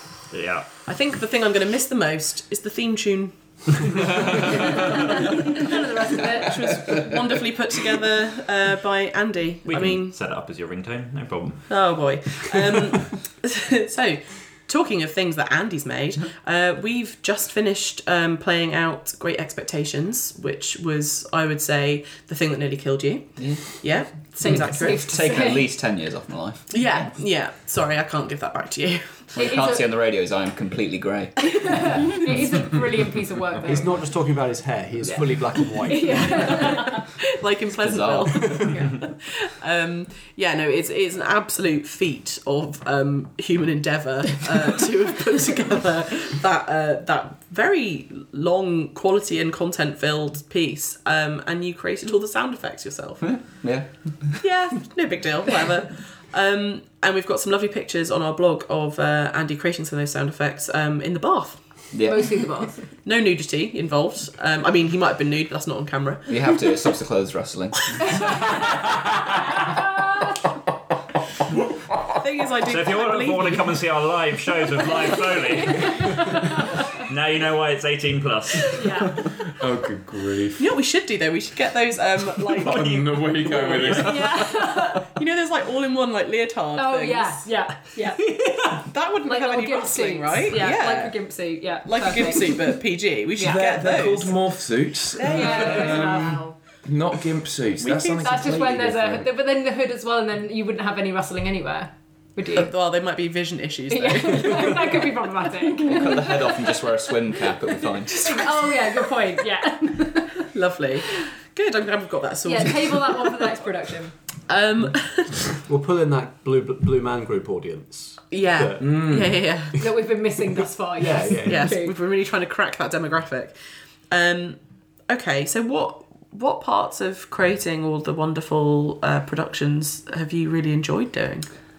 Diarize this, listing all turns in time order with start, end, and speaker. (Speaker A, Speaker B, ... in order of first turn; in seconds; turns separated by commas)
Speaker A: 0.3-0.7, Speaker B: 0.9-4.0, Speaker C: 5.5-6.5, Speaker B: 5.5-5.8, Speaker B: 6.3-10.2, Speaker A: 9.7-11.8, Speaker B: 11.7-25.3, Speaker D: 23.4-23.8, Speaker C: 24.4-25.7, Speaker D: 24.4-26.7, Speaker B: 26.7-29.3, Speaker D: 29.3-31.9, Speaker C: 29.4-29.9, Speaker C: 31.4-34.1, Speaker E: 33.7-36.8, Speaker C: 35.1-37.0, Speaker B: 36.2-53.2, Speaker D: 37.8-38.9, Speaker D: 53.2-54.4, Speaker B: 54.4-61.6, Speaker D: 61.9-62.5, Speaker C: 62.0-62.8, Speaker B: 62.9-66.2, Speaker D: 66.3-68.0, Speaker B: 72.2-73.8, Speaker A: 72.7-76.3, Speaker A: 77.0-78.8, Speaker C: 78.7-79.2, Speaker F: 79.6-80.6, Speaker B: 80.6-87.5, Speaker F: 82.5-84.3, Speaker C: 83.9-85.0, Speaker C: 86.8-92.7, Speaker B: 88.7-91.3, Speaker B: 91.8-94.4, Speaker F: 93.4-99.2, Speaker B: 95.1-96.2, Speaker C: 95.2-96.6, Speaker B: 97.8-98.3, Speaker C: 98.2-102.7, Speaker B: 102.5-104.9, Speaker C: 103.9-106.6, Speaker D: 105.8-108.3, Speaker C: 108.2-110.4, Speaker B: 110.4-113.5, Speaker C: 112.5-114.2, Speaker B: 114.5-115.4, Speaker E: 115.6-119.5, Speaker B: 118.3-119.8, Speaker F: 118.8-119.3, Speaker C: 119.8-122.0, Speaker E: 121.0-121.8, Speaker B: 121.4-123.6, Speaker B: 124.1-131.5